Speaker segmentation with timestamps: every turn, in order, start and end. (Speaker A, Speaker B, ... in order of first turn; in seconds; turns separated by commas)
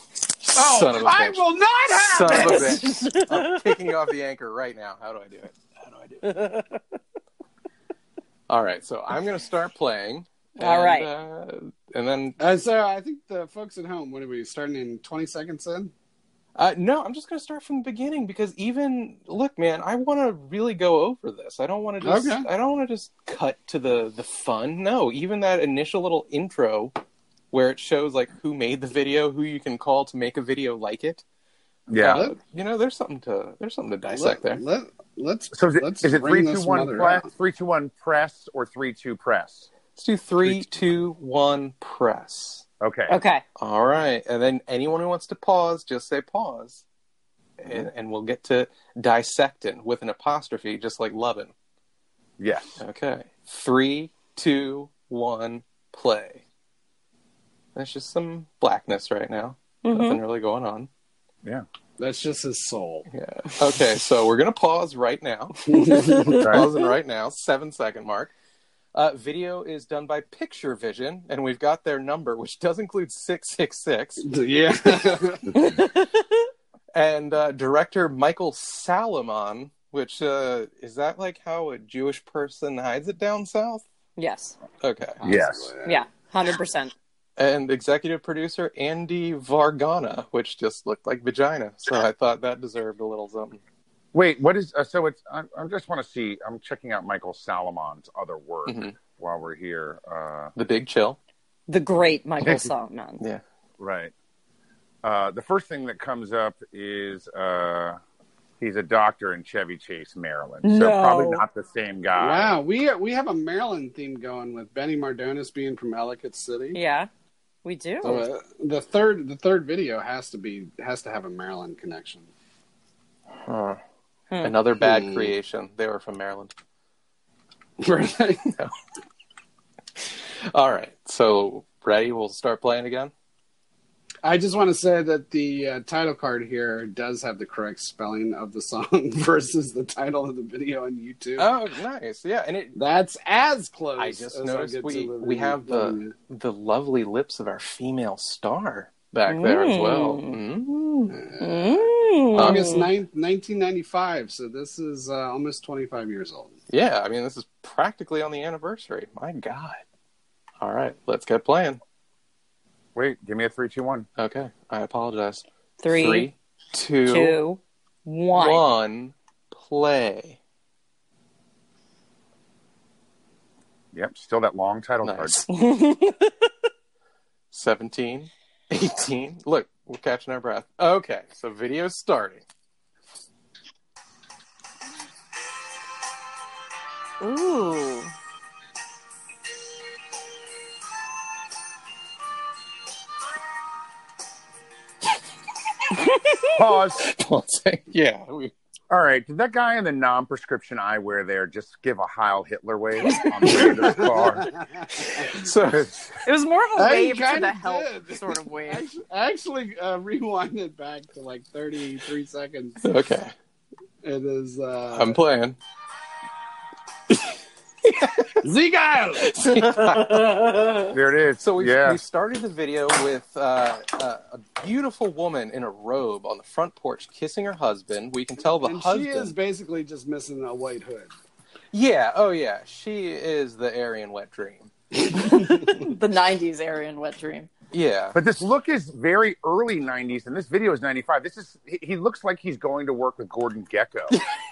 Speaker A: 0.5-6.5, Speaker B: 0.5-2.9, Speaker C: 2.3-3.6, Speaker A: 8.5-12.4, Speaker C: 10.6-11.1, Speaker B: 12.4-15.9, Speaker A: 16.5-26.9, Speaker B: 22.0-22.5, Speaker A: 27.5-31.2, Speaker D: 31.9-32.3, Speaker A: 32.0-34.6, Speaker B: 32.0-32.4, Speaker B: 34.1-37.2, Speaker D: 35.5-39.7, Speaker A: 40.0-42.6, Speaker D: 40.4-40.8, Speaker D: 42.8-43.1, Speaker C: 43.1-43.4, Speaker A: 43.6-46.8, Speaker A: 47.6-51.5, Speaker D: 52.4-52.8, Speaker A: 52.8-56.4, Speaker A: 57.7-60.9, Speaker C: 59.8-60.2, Speaker B: 62.0-63.1, Speaker A: 63.1-68.3, Speaker B: 65.7-66.5, Speaker C: 66.0-66.3, Speaker D: 66.4-66.7, Speaker A: 68.9-74.2, Speaker B: 74.2-75.6, Speaker C: 75.6-76.2, Speaker A: 76.9-83.8, Speaker C: 84.2-84.6, Speaker A: 84.8-85.2, Speaker B: 85.2-86.0, Speaker D: 85.2-85.7, Speaker C: 85.8-86.9, Speaker A: 87.4-93.6, Speaker D: 94.1-100.5, Speaker A: 98.7-99.0, Speaker A: 100.5-101.2, Speaker C: 101.7-103.2, Speaker D: 102.4-102.7, Speaker D: 103.8-104.1, Speaker D: 105.0-108.0, Speaker D: 108.6-112.5, Speaker C: 110.6-111.4, Speaker B: 112.2-116.8, Speaker C: 116.7-117.1, Speaker C: 117.6-118.2, Speaker B: 118.0-122.3, Speaker A: 123.5-123.8, Speaker A: 124.4-126.5, Speaker B: 124.8-125.3, Speaker B: 127.8-128.5, Speaker A: 130.0-133.1, Speaker B: 134.2-141.5, Speaker A: 141.4-142.8, Speaker B: 142.7-146.1, Speaker A: 144.0-151.2, Speaker C: 149.3-150.4, Speaker B: 151.1-156.5, Speaker C: 151.4-152.9, Speaker A: 152.3-152.9, Speaker A: 156.7-159.8, Speaker A: 160.6-161.8, Speaker D: 162.9-164.1, Speaker A: 164.2-167.4, Speaker C: 165.8-166.3, Speaker C: 167.1-168.6, Speaker A: 168.3-170.4, Speaker D: 173.9-175.4, Speaker A: 175.0-175.5, Speaker C: 175.5-176.5, Speaker A: 177.5-182.4, Speaker C: 187.2-188.1, Speaker D: 196.5-197.1, Speaker A: 197.0-198.5, Speaker D: 198.9-204.5, Speaker B: 203.4-205.4, Speaker A: 203.5-204.1, Speaker A: 204.9-206.0, Speaker D: 205.7-206.1, Speaker C: 206.2-208.9, Speaker B: 206.8-212.8, Speaker A: 212.8-213.3, Speaker B: 214.0-215.2, Speaker A: 214.9-215.6, Speaker A: 217.8-218.4, Speaker B: 218.4-219.4, Speaker A: 219.2-220.7, Speaker C: 219.6-220.9, Speaker D: 220.9-222.0, Speaker A: 221.4-229.3, Speaker B: 228.6-231.1, Speaker A: 231.7-234.7, Speaker C: 235.1-237.5, Speaker A: 237.7-238.2, Speaker D: 238.1-244.2